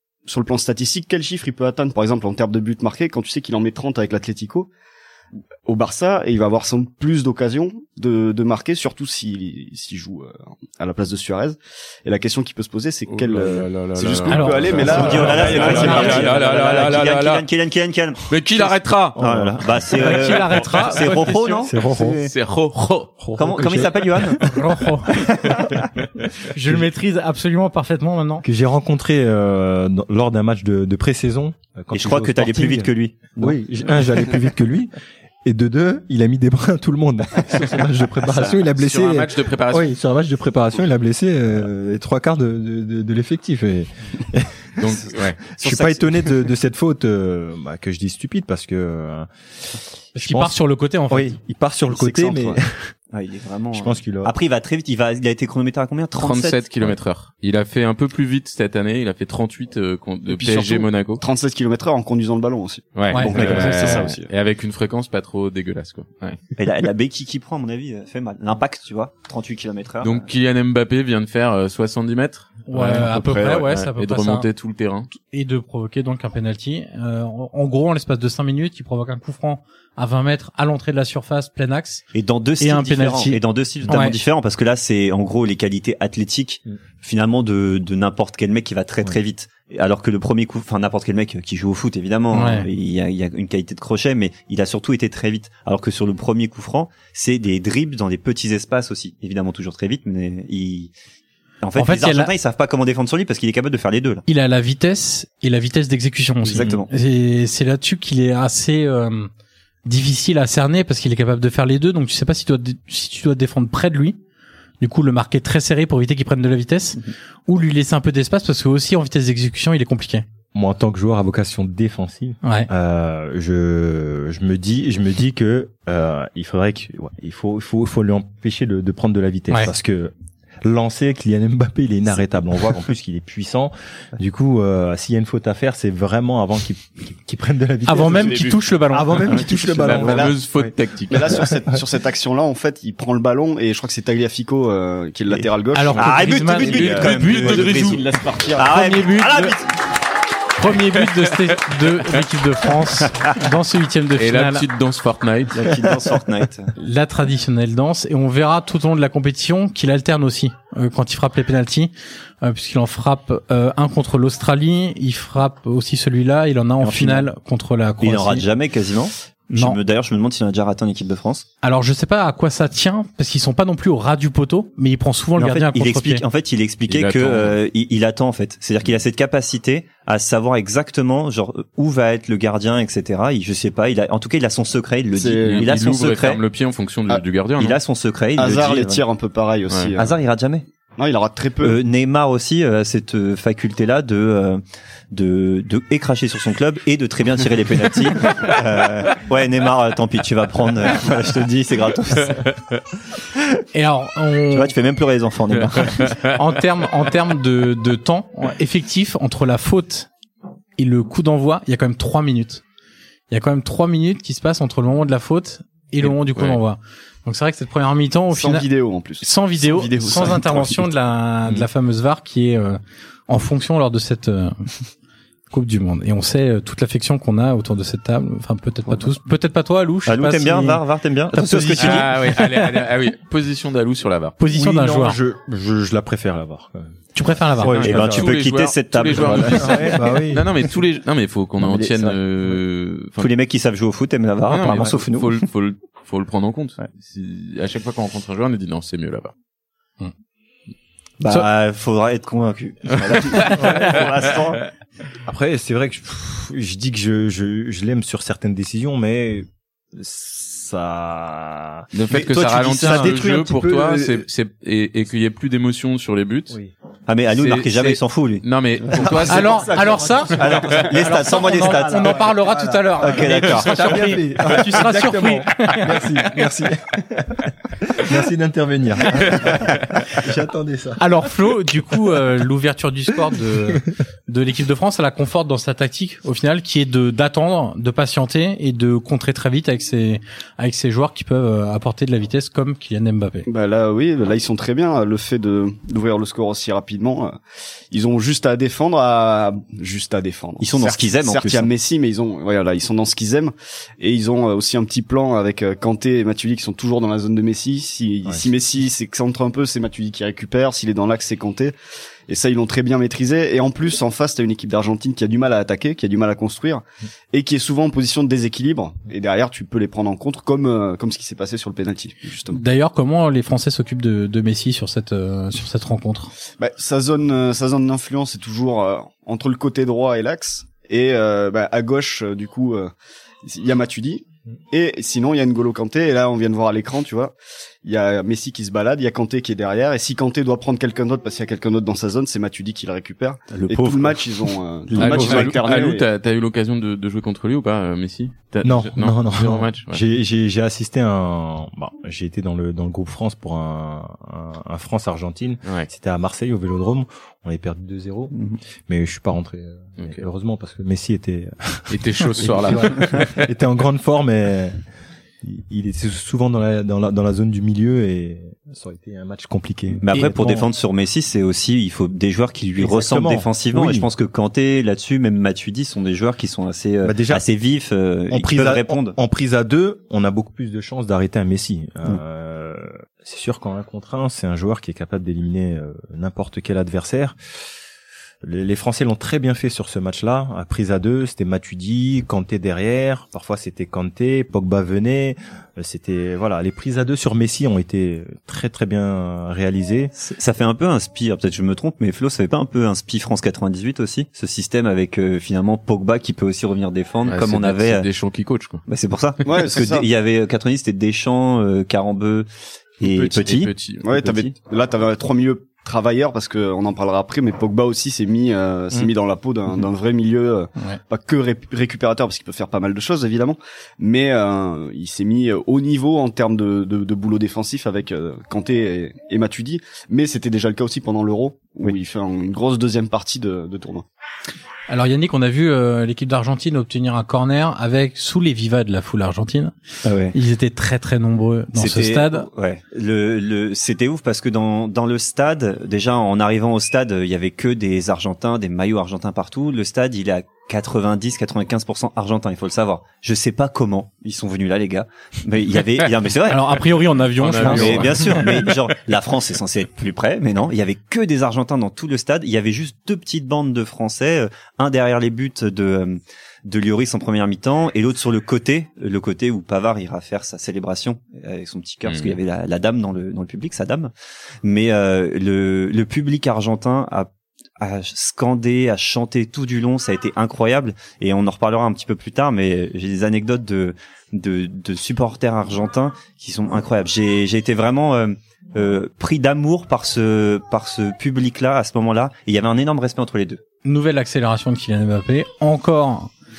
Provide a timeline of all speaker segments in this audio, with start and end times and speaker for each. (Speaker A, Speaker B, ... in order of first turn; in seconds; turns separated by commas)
Speaker A: 0.3-4.7, Speaker A: 5.7-16.9, Speaker B: 13.1-17.4, Speaker C: 14.3-16.2, Speaker D: 14.8-22.3, Speaker B: 18.3-19.2, Speaker E: 19.2-19.7, Speaker C: 19.9-21.6, Speaker B: 20.5-21.4, Speaker E: 21.6-22.2, Speaker B: 22.0-23.3, Speaker E: 23.2-24.4, Speaker D: 23.4-24.5, Speaker C: 24.4-25.2, Speaker D: 25.2-25.6, Speaker C: 26.5-28.4, Speaker E: 28.4-34.9, Speaker D: 31.9-33.6, Speaker E: 35.5-45.0, Speaker B: 38.5-39.9, Speaker B: 44.8-45.4, Speaker E: 45.6-49.3, Speaker D: 45.6-46.0, Speaker C: 50.1-51.4, Speaker E: 50.2-50.6, Speaker E: 51.1-52.9, Speaker A: 51.9-52.6, Speaker D: 53.1-56.7, Speaker E: 53.7-54.3, Speaker B: 56.2-61.2, Speaker A: 60.3-64.3, Speaker B: 63.0-66.4, Speaker D: 63.3-64.1, Speaker D: 66.6-70.3, Speaker B: 70.0-75.1, Speaker C: 72.7-74.5, Speaker C: 75.1-82.0, Speaker D: 82.1-100.9, Speaker C: 82.6-84.2, Speaker C: 92.3-92.7, Speaker D: 101.6-104.2, Speaker C: 101.8-102.3, Speaker C: 104.3-109.3, Speaker D: 106.4-106.9, Speaker C: 109.8-114.2, Speaker C: 114.8-120.2, Speaker E: 120.5-140.7, Speaker C: 122.4-122.7, Speaker C: 137.9-139.8, Speaker A: 138.1-138.5, Speaker B: 139.3-141.4, Speaker A: 140.0-140.3, Speaker A: 141.1-148.8, Speaker E: 141.3-141.8, Speaker C: 145.7-147.9, Speaker D: 145.9-148.1, Speaker B: 146.6-148.0, Speaker D: 148.6-149.7, Speaker C: 148.7-149.6, Speaker C: 150.6-154.7, Speaker B: 154.2-155.8, Speaker D: 155.5-156.7, Speaker C: 156.8-168.5, Speaker D: 166.8-167.3, Speaker D: 168.0-171.5, Speaker C: 169.5-169.8, Speaker C: 171.6-176.2, Speaker D: 175.4-186.4, Speaker B: 176.9-177.6, Speaker A: 185.1-185.7, Speaker B: 185.4-187.8, Speaker D: 187.6-189.0, Speaker A: 188.4-190.2, Speaker D: 190.0-190.7, Speaker A: 191.0-191.8, Speaker D: 191.6-202.5, Speaker C: 203.7-204.7, Speaker D: 204.5-206.1, Speaker B: 205.8-206.4, Speaker C: 206.2-210.1, Speaker C: 210.8-212.6, Speaker C: 213.3-218.7, Speaker B: 216.0-216.6, Speaker A: 218.3-220.8, Speaker C: 219.2-224.7, Speaker C: 225.5-232.8, Speaker D: 230.1-232.1, Speaker B: 231.8-234.4, Speaker C: 234.4-235.2, Speaker E: 234.5-237.0, Speaker C: 237.2-237.8, Speaker E: 237.5-238.3, Speaker B: 237.7-243.3, Speaker D: 237.8-240.0, Speaker E: 239.2-240.4, Speaker D: 241.6-242.2, Speaker D: 243.2-245.4, Speaker B: 244.5-249.3, Speaker D: 251.2-254.6, Speaker B: 253.3-254.6, Speaker E: 253.6-254.1, Speaker E: 255.3-261.9, Speaker B: 261.9-266.6, Speaker D: 262.1-263.2, Speaker E: 262.7-264.2, Speaker D: 267.1-269.4, Speaker B: 267.3-270.9, Speaker E: 269.0-281.0, Speaker C: 269.3-276.1, Speaker D: 270.4-272.3, Speaker D: 273.0-274.0, Speaker B: 279.3-279.7, Speaker C: 281.0-293.5, Speaker A: 293.5-297.4, Speaker A: 297.9-311.7, Speaker D: 300.6-301.7, Speaker A: 312.3-322.6, Speaker C: 322.5-326.3, Speaker A: 326.6-332.9, Speaker A: 333.4-346.1, Speaker D: 343.5-345.6, Speaker B: 345.0-350.0, Speaker E: 348.6-358.3, Speaker D: 358.3-358.6, Speaker E: 358.9-364.8, Speaker B: 360.0-360.3, Speaker B: 361.9-363.5, Speaker E: 365.4-370.6, Speaker D: 370.0-379.2, Speaker C: 370.1-370.5, Speaker E: 372.8-374.1, Speaker E: 377.0-377.4, Speaker E: 378.3-387.4, Speaker E: 388.4-400.1, Speaker D: 400.1-408.1, Speaker B: 407.2-408.8, Speaker D: 408.9-412.5, Speaker A: 409.4-410.1, Speaker D: 413.0-414.5, Speaker B: 413.0-414.1, Speaker A: 414.0-434.1, Speaker C: 434.9-439.7, Speaker D: 440.1-440.4, Speaker C: 440.3-442.5, Speaker D: 441.7-456.9, Speaker C: 456.5-458.6, Speaker B: 457.4-458.6, Speaker D: 457.6-474.1, Speaker B: 472.1-472.4, Speaker D: 474.6-493.6, Speaker C: 493.8-496.3